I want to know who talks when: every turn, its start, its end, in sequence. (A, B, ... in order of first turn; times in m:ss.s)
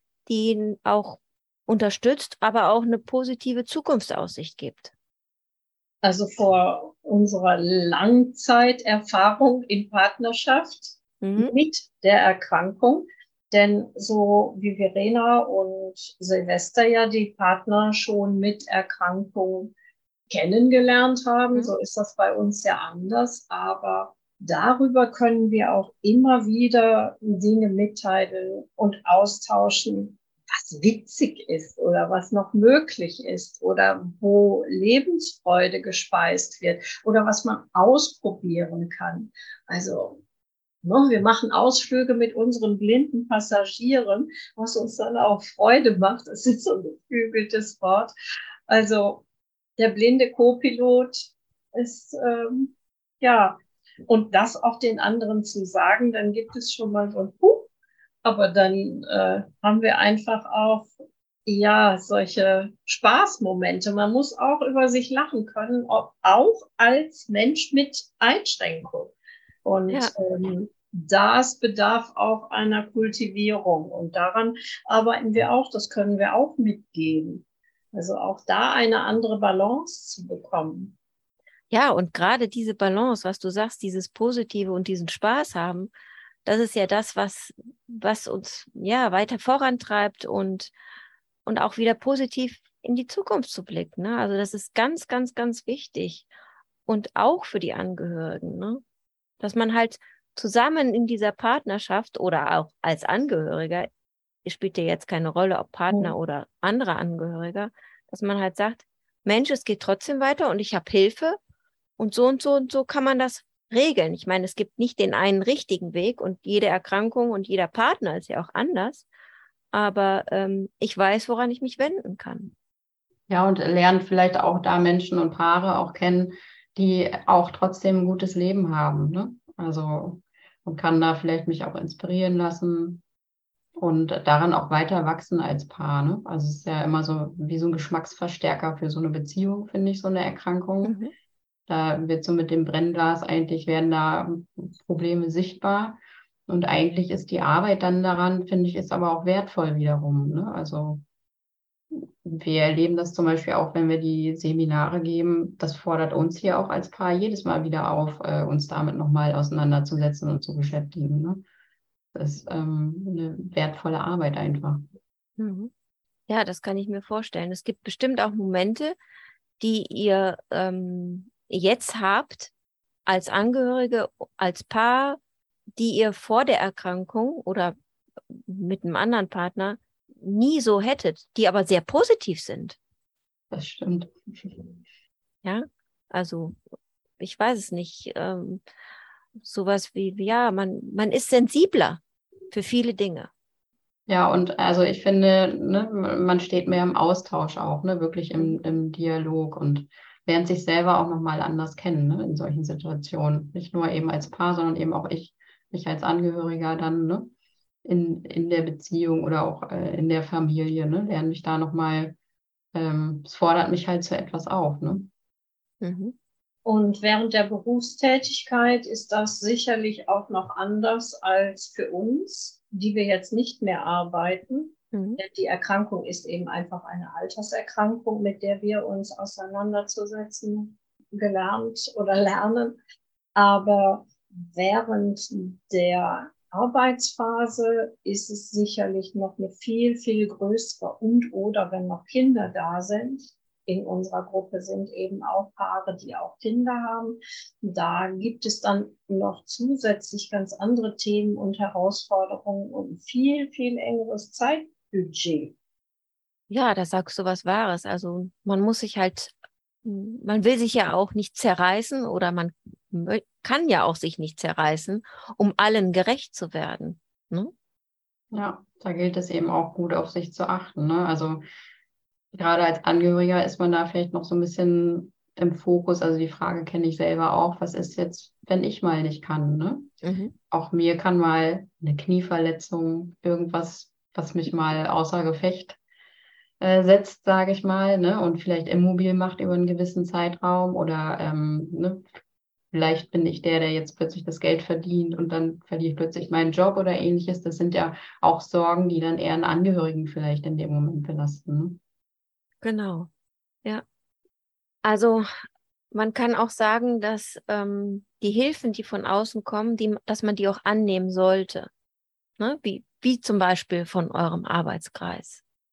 0:00.3-0:04.9 A
0:06.0-0:19.7 B
0:11.2-0:11.5 A
0:20.3-0:40.2 B
0:40.8-0:48.1 B
0:48.7-0:49.2 B
0:49.8-0:57.7 B
0:58.2-1:00.9 B
1:01.4-1:09.1 B
1:09.6-1:20.9 B
1:21.7-1:25.9 A
1:26.4-1:30.7 A
1:31.4-1:36.3 A
1:36.9-1:38.8 A
1:39.4-1:43.9 A
1:44.4-1:51.4 A
1:45.9-1:46.1 B
1:52.0-1:59.0 A
1:59.7-2:02.5 A
2:03.3-2:13.0 C
2:13.8-2:20.9 C
2:20.8-2:21.1 A
2:21.7-2:31.0 C
2:31.9-2:41.4 C
2:42.1-2:44.9 C
2:45.4-2:45.7 A
2:46.3-2:49.0 A
2:49.6-2:52.5 A
2:53.1-2:55.2 A
2:55.8-2:57.7 A
2:58.3-3:02.8 A
3:03.5-3:04.7 C
3:05.4-3:06.6 A
3:07.2-3:08.6 A
3:09.4-3:12.0 A
3:12.5-3:13.3 A
3:14.1-3:27.3 C
3:27.8-3:32.2 C
3:32.7-3:35.1 C
3:35.8-3:36.1 A
3:36.6-3:52.8 B
3:44.9-3:45.2 A
3:53.3-4:15.5 B
4:16.5-4:19.3 A
4:19.8-4:27.5 A
4:28.3-4:31.4 C
4:32.3-4:39.9 C
4:40.0-4:40.3 A
4:40.5-4:45.8 C
4:46.6-4:52.1 C
4:52.7-5:01.8 C
5:02.6-5:03.1 A
5:04.8-5:05.3 A
5:05.9-5:11.7 A
5:12.4-5:15.4 A